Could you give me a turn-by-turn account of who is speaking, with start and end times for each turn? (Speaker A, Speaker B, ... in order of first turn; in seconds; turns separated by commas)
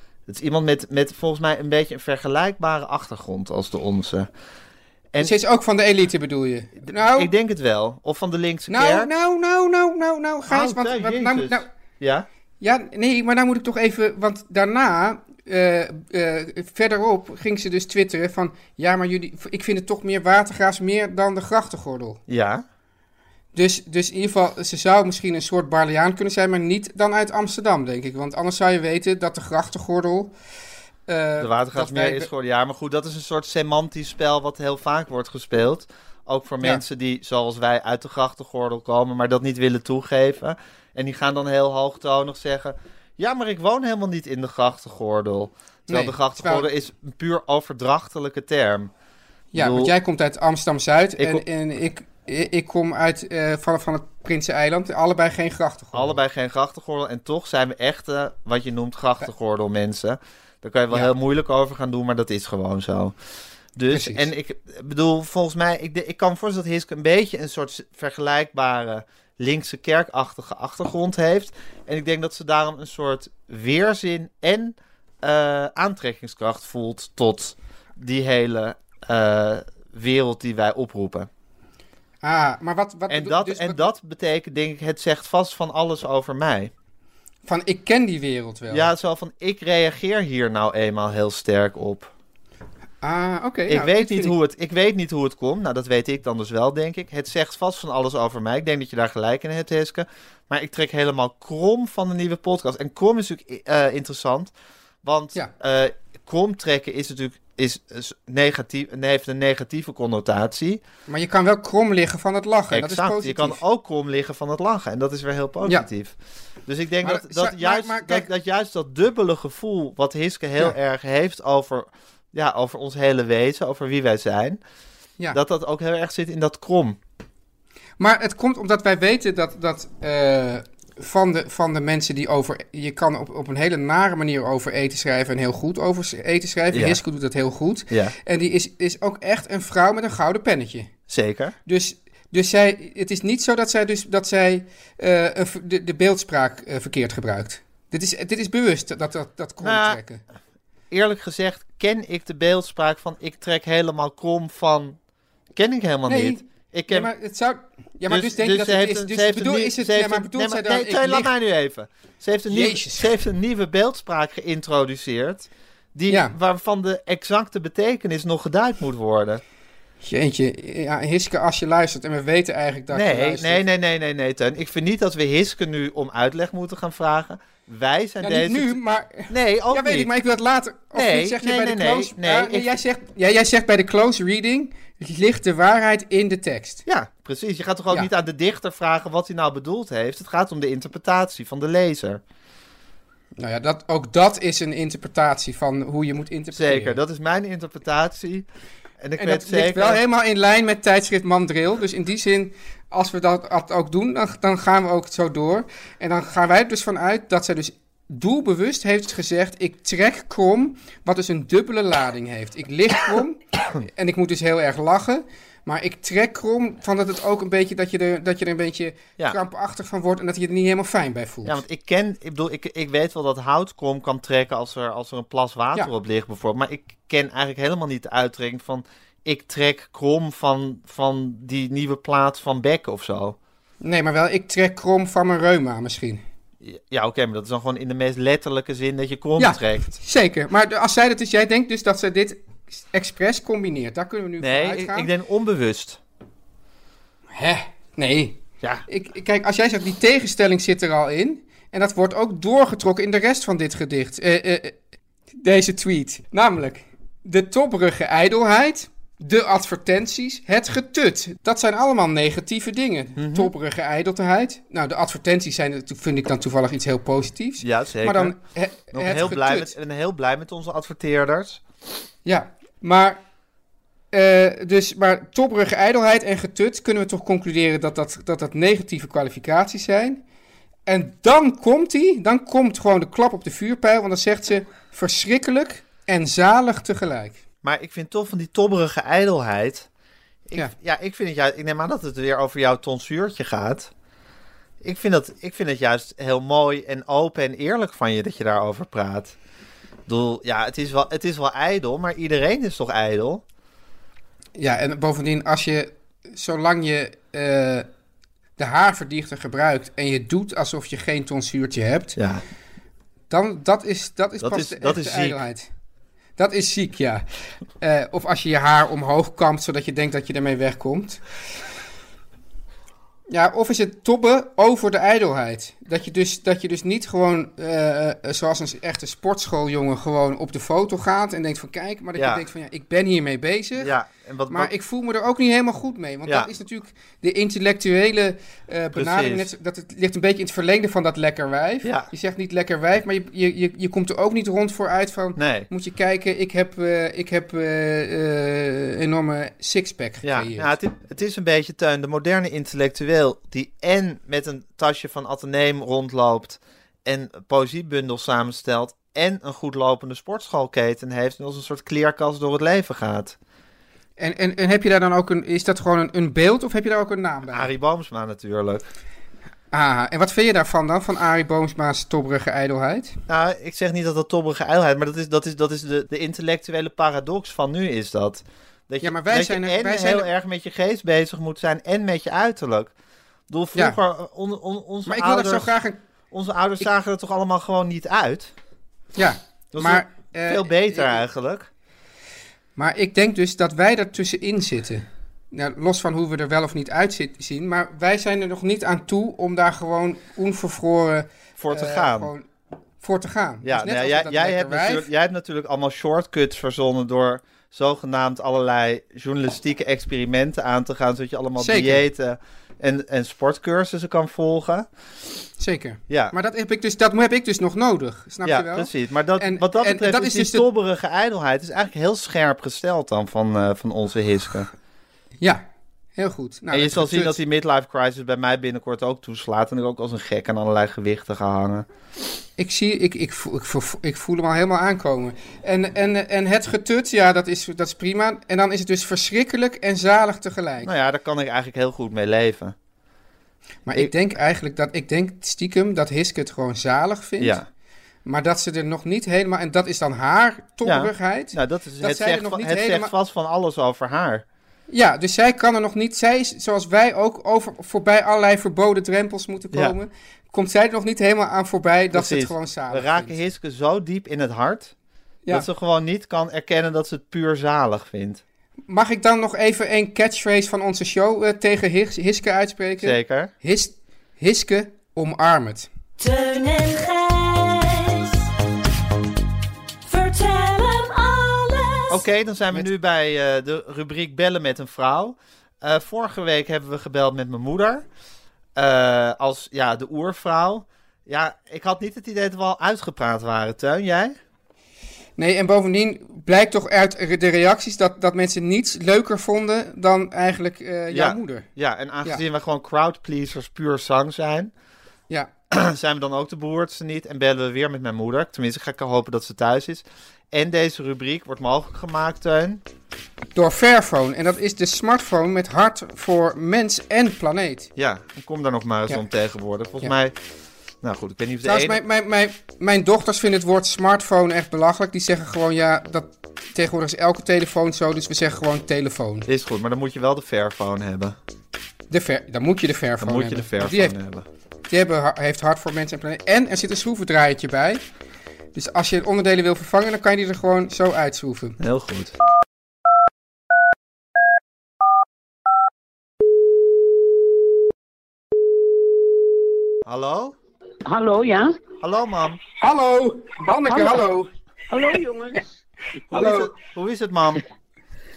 Speaker A: 0.3-4.3, Speaker B: 5.2-7.3, Speaker A: 6.8-9.1, Speaker B: 8.7-11.7, Speaker A: 10.5-12.3, Speaker B: 12.6-22.2, Speaker A: 22.3-22.6, Speaker B: 23.5-30.3, Speaker B: 31.1-32.3, Speaker A: 31.4-48.9, Speaker B: 45.9-46.7, Speaker B: 49.5-56.2, Speaker A: 49.5-49.9, Speaker A: 51.2-51.4, Speaker A: 55.9-63.1, Speaker A: 63.8-81.3, Speaker B: 63.9-64.3, Speaker B: 82.2-83.9, Speaker A: 83.1-86.7, Speaker B: 87.5-88.9, Speaker A: 88.7-92.1, Speaker B: 93.0-94.3, Speaker A: 93.7-104.5, Speaker A: 105.0-110.8, Speaker B: 111.1-113.6, Speaker A: 112.7-116.2, Speaker A: 116.7-124.6, Speaker B: 117.0-118.3, Speaker A: 125.3-127.0, Speaker B: 128.0-140.9, Speaker A: 136.7-137.0, Speaker A: 137.9-138.2, Speaker A: 141.1-141.6, Speaker B: 141.7-150.2, Speaker A: 149.6-150.0, Speaker A: 150.9-155.0, Speaker A: 155.6-157.1, Speaker B: 156.1-161.3, Speaker A: 158.1-169.4, Speaker B: 162.5-163.1, Speaker B: 166.1-166.3, Speaker B: 170.0-173.6, Speaker A: 172.9-180.1, Speaker B: 178.2-186.8, Speaker A: 180.9-182.8, Speaker A: 186.9-192.2, Speaker B: 193.4-197.0, Speaker A: 196.5-198.5, Speaker A: 199.0-200.0, Speaker B: 199.2-221.6, Speaker A: 221.4-233.4, Speaker B: 233.8-236.2, Speaker A: 236.6-239.9, Speaker B: 239.4-245.1, Speaker A: 244.4-246.0, Speaker B: 247.3-254.8, Speaker B: 255.4-269.7, Speaker A: 263.2-263.5, Speaker A: 267.6-268.4, Speaker A: 268.9-271.6, Speaker B: 272.2-273.2, Speaker B: 274.1-280.2, Speaker B: 280.9-287.4, Speaker A: 287.6-289.9, Speaker A: 290.5-293.9, Speaker A: 294.8-299.4, Speaker A: 300.1-303.4, Speaker B: 304.6-307.9, Speaker B: 308.6-312.2, Speaker A: 312.2-312.4, Speaker B: 313.3-315.7, Speaker A: 314.4-315.4, Speaker B: 316.4-317.2, Speaker B: 317.8-321.2, Speaker B: 323.3-333.9, Speaker A: 332.2-332.4, Speaker A: 333.8-334.7, Speaker B: 334.5-350.7, Speaker A: 338.9-339.5, Speaker A: 341.8-342.1, Speaker A: 345.4-345.7, Speaker A: 350.2-363.4, Speaker B: 364.2-367.7, Speaker A: 367.5-368.9, Speaker B: 369.7-373.2, Speaker A: 373.3-382.9, Speaker B: 379.0-380.3, Speaker A: 383.5-385.7, Speaker B: 385.1-386.0, Speaker A: 386.3-388.5, Speaker B: 389.1-391.2, Speaker A: 389.7-391.7, Speaker B: 392.8-402.5, Speaker A: 401.6-402.3, Speaker B: 403.0-405.1, Speaker A: 403.6-414.9, Speaker B: 411.6-412.0, Speaker B: 415.6-420.7, Speaker A: 416.1-416.4, Speaker A: 418.4-424.7, Speaker B: 426.2-427.4, Speaker A: 426.7-431.9, Speaker B: 432.6-440.9, Speaker A: 440.8-442.8, Speaker B: 443.9-447.6, Speaker A: 447.4-447.7, Speaker B: 448.3-453.1, Speaker A: 450.8-454.4, Speaker B: 454.9-463.4, Speaker A: 462.1-464.9, Speaker A: 465.5-468.4, Speaker B: 468.9-475.9, Speaker A: 473.0-473.5, Speaker C: 476.2-478.4, Speaker C: 480.1-482.1, Speaker A: 482.1-488.1, Speaker A: 488.8-494.4, Speaker B: 495.4-501.7, Speaker A: 501.1-504.7, Speaker A: 505.7-512.8, Speaker B: 513.5-517.9, Speaker A: 518.0-520.4, Speaker A: 521.0-522.0, Speaker B: 521.6-529.5, Speaker A: 529.5-531.4, Speaker B: 532.1-534.2, Speaker A: 533.2-534.5, Speaker B: 534.9-538.0, Speaker B: 538.7-541.8, Speaker A: 541.8-542.4, Speaker A: 550.0-550.6, Speaker D: 551.0-551.8, Speaker A: 552.0-552.6, Speaker B: 552.8-554.5, Speaker D: 553.9-554.2, Speaker D: 554.9-555.8, Speaker B: 556.3-556.7, Speaker A: 556.3-557.6